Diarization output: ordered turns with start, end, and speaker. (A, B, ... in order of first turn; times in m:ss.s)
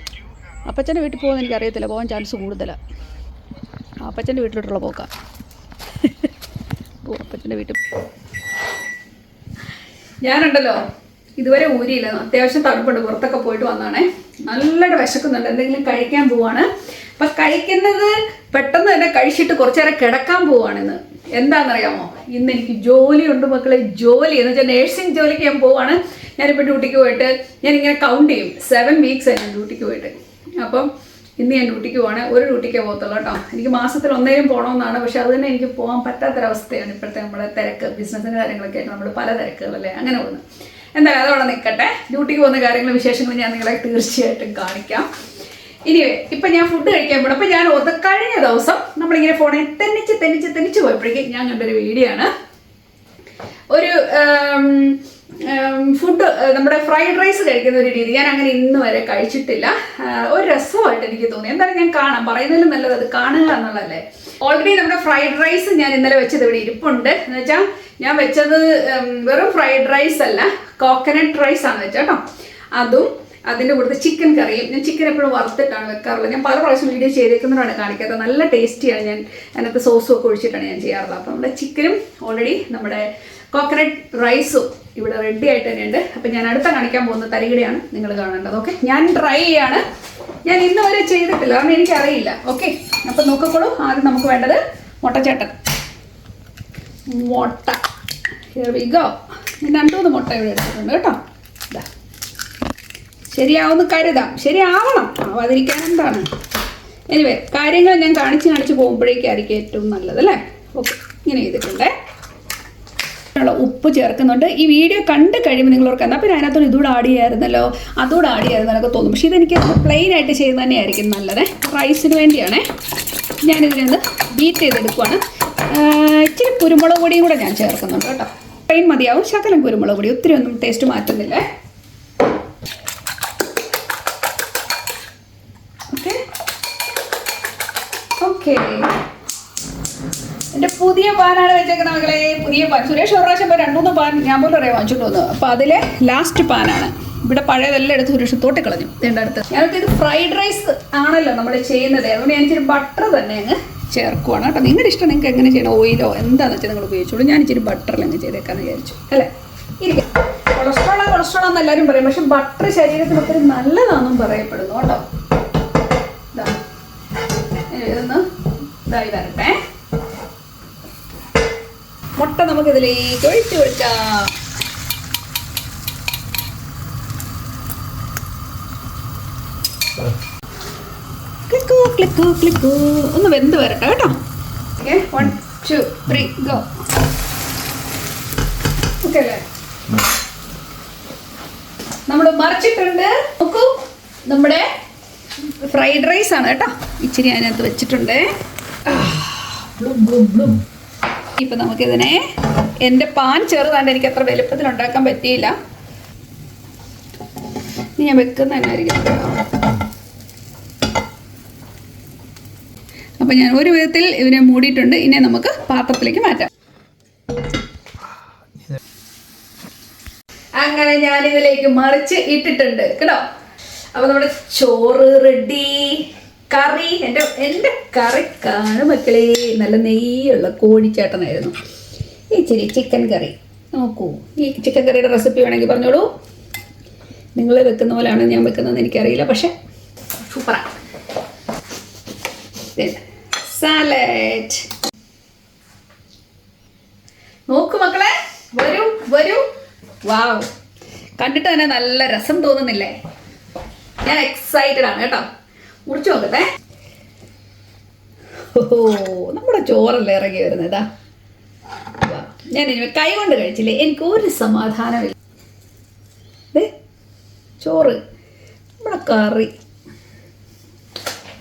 0:00.6-0:02.8 A
0:04.0-0:05.1 A
0:06.0-0:06.3 A
0:07.0-0:07.8 A
0:10.2-0:10.8 A
0:11.4-0:40.4 A
0:40.9-0:45.1 A
0:45.9-0:52.3 A
0:53.7-1:12.2 A
1:12.7-1:29.8 A
1:30.4-1:35.6 A
1:37.1-1:37.8 A
1:38.5-1:41.2 A
1:43.3-1:46.2 A
1:47.1-1:51.9 A
1:53.4-2:02.6 A
2:03.4-2:11.4 A
2:15.9-2:16.2 A
2:18.2-2:18.9 A
2:20.5-2:45.0 A
2:46.3-2:46.6 A
2:47.7-2:48.3 A
2:48.8-2:49.6 A
2:52.2-2:54.3 A
3:01.5-3:04.2 A
3:04.8-3:06.7 A
3:09.0-3:09.4 A
3:12.1-3:13.7 A
3:14.3-3:14.7 A
3:15.5-3:18.3 A
3:18.9-3:20.6 A
3:21.4-3:22.3 A
3:22.8-3:25.6 A
3:28.0-3:29.5 A
3:33.2-3:36.5 A
3:40.6-3:43.2 A
3:43.9-3:51.5 A
3:52.3-3:56.1 A
3:57.3-3:59.5 A
4:00.2-4:00.7 A
4:02.7-4:04.7 A
4:07.5-4:09.4 A
4:10.0-4:10.5 A
4:11.2-4:13.0 A
4:14.0-4:15.2 A
4:15.9-4:16.5 A
4:18.5-4:20.9 A
4:22.0-4:25.1 A
4:27.6-4:28.0 A
4:28.8-4:29.5 A